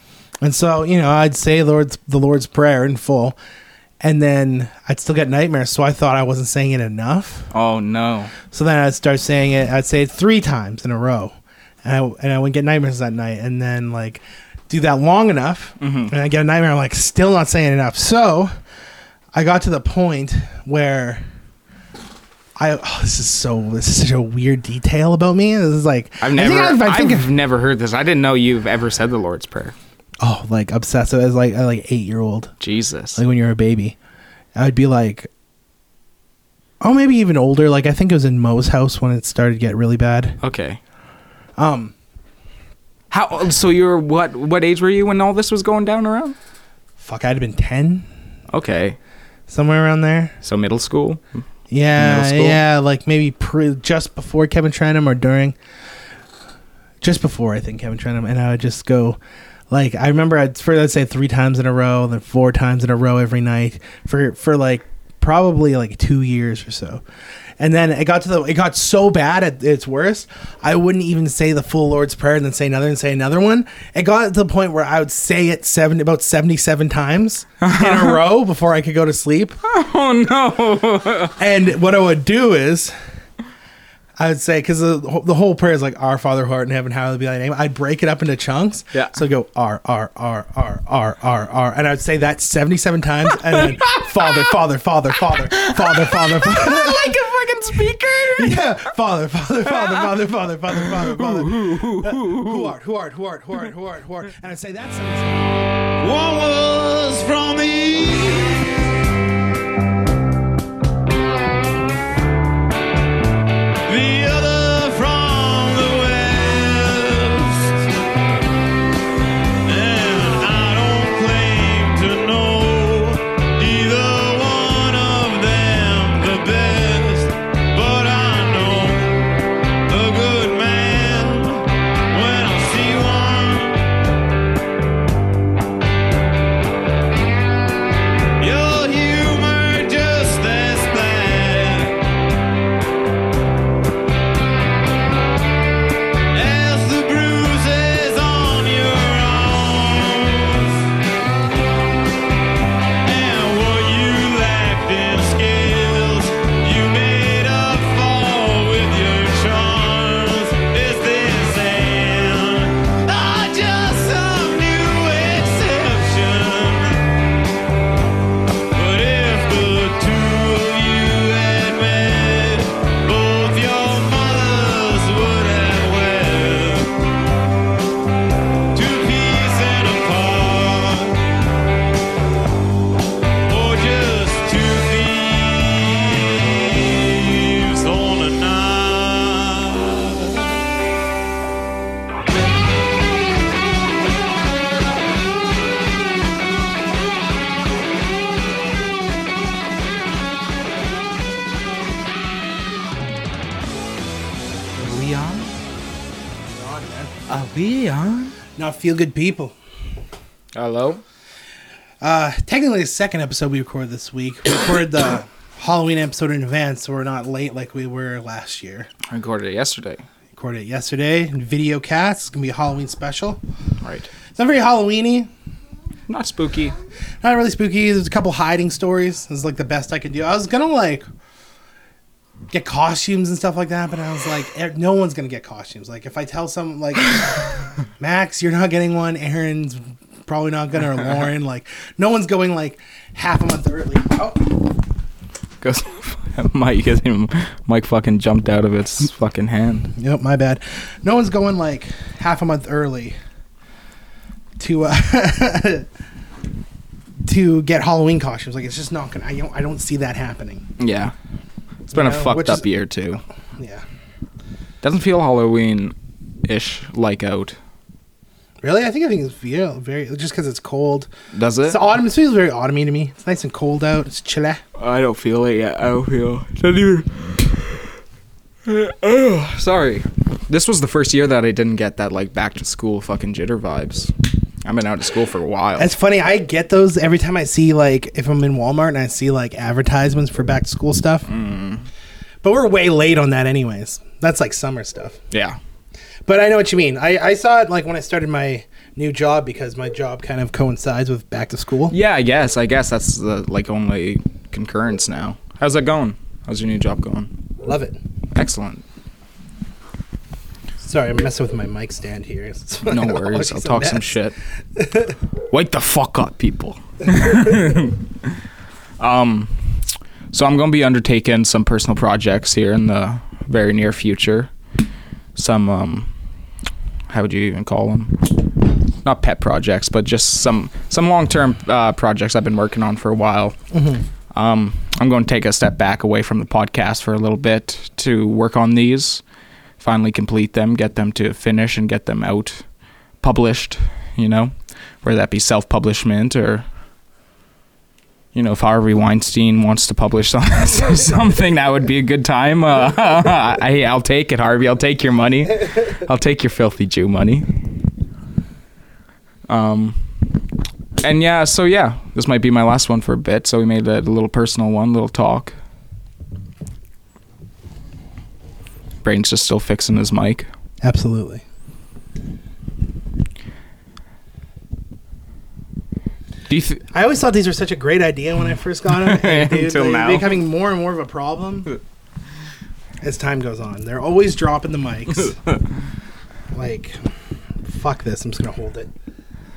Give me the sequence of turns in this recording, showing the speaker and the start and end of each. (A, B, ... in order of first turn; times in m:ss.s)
0:00.4-0:03.4 A
0:04.0-0:07.5 A
0:07.5-0:08.3 B
0:08.5-0:18.5 A
0:15.8-0:16.1 B
0:19.3-0:21.2 A
0:22.6-0:27.2 A
0:26.2-0:29.8 B
0:30.2-0:32.5 A
0:32.6-0:33.2 B
0:33.2-0:34.0 A
0:34.6-0:35.3 A
0:36.8-0:40.4 A
0:40.4-0:40.8 B
0:41.6-0:41.9 A
0:43.1-0:46.4 B
0:47.0-0:48.1 A
0:48.5-0:49.0 B
0:49.5-0:50.3 A
0:50.4-0:51.2 B
0:51.7-0:55.6 A
0:52.0-0:52.6 B
0:57.0-0:59.2 A
0:59.7-1:07.0 A
1:07.6-1:19.6 A
1:17.6-1:18.2 B
1:19.6-1:21.3 B
1:21.4-1:22.9 A
1:24.2-1:37.2 A
1:33.5-1:34.6 B
1:35.3-1:38.6 B
1:38.3-1:45.5 A
1:39.6-1:40.1 B
1:40.7-1:42.7 B
1:46.0-1:48.8 C
1:53.9-1:57.8 C
1:59.6-2:09.3 C
2:09.9-2:13.9 C
2:18.4-2:22.0 C
2:26.3-2:30.8 C
2:33.0-2:47.1 C
2:48.7-2:56.9 C
2:58.7-3:01.2 C
3:03.5-3:10.5 C
3:24.8-3:25.5 B
3:26.5-3:27.1 A
3:27.3-3:28.4 B
3:28.6-3:29.6 A
3:30.5-3:31.0 B
3:32.0-3:38.9 A
3:39.1-3:40.0 B
3:40.3-3:43.4 A
3:43.8-3:44.1 B
3:44.4-3:45.3 A
3:46.1-3:46.8 B
3:47.2-3:51.0 A
3:52.5-4:04.5 A
4:05.6-4:09.9 B
4:10.0-4:13.2 A
4:14.6-4:15.9 A
4:17.2-4:20.7 A
4:20.8-4:21.1 B
4:21.9-4:22.7 A
4:21.9-4:23.2 B
4:23.6-4:23.8 A
4:24.8-4:27.6 B
4:28.6-4:31.1 A
4:31.3-4:31.8 B
4:31.6-4:34.6 A
4:34.8-4:37.8 B
4:38.6-4:44.1 B
4:44.6-4:45.9 B
4:45.8-4:51.3 A
4:51.3-4:51.9 B
4:52.4-4:55.2 A
4:55.3-4:55.6 B
4:56.3-5:02.0 A
5:01.9-5:07.3 B
5:07.6-5:08.0 A
5:08.3-5:08.8 B
5:10.8-5:14.2 A
5:12.8-5:14.4 B
5:14.8-5:15.1 A
5:15.5-5:18.4 B
5:19.0-5:24.5 B
5:25.4-5:26.1 B
5:27.1-5:33.6 B
5:33.7-5:34.0 A
5:34.3-5:39.2 B
5:39.8-5:42.6 B
5:43.2-5:46.6 B
5:48.3-5:57.5 B
5:59.5-6:00.5 B
6:01.0-6:05.6 B
6:09.0-6:10.5 B
6:10.8-6:11.4 A
6:16.5-6:16.8 B
6:16.9-6:21.8 A
6:18.9-6:20.4 B
6:23.0-6:25.4 A
6:26.5-6:27.0 A
6:27.6-6:28.9 A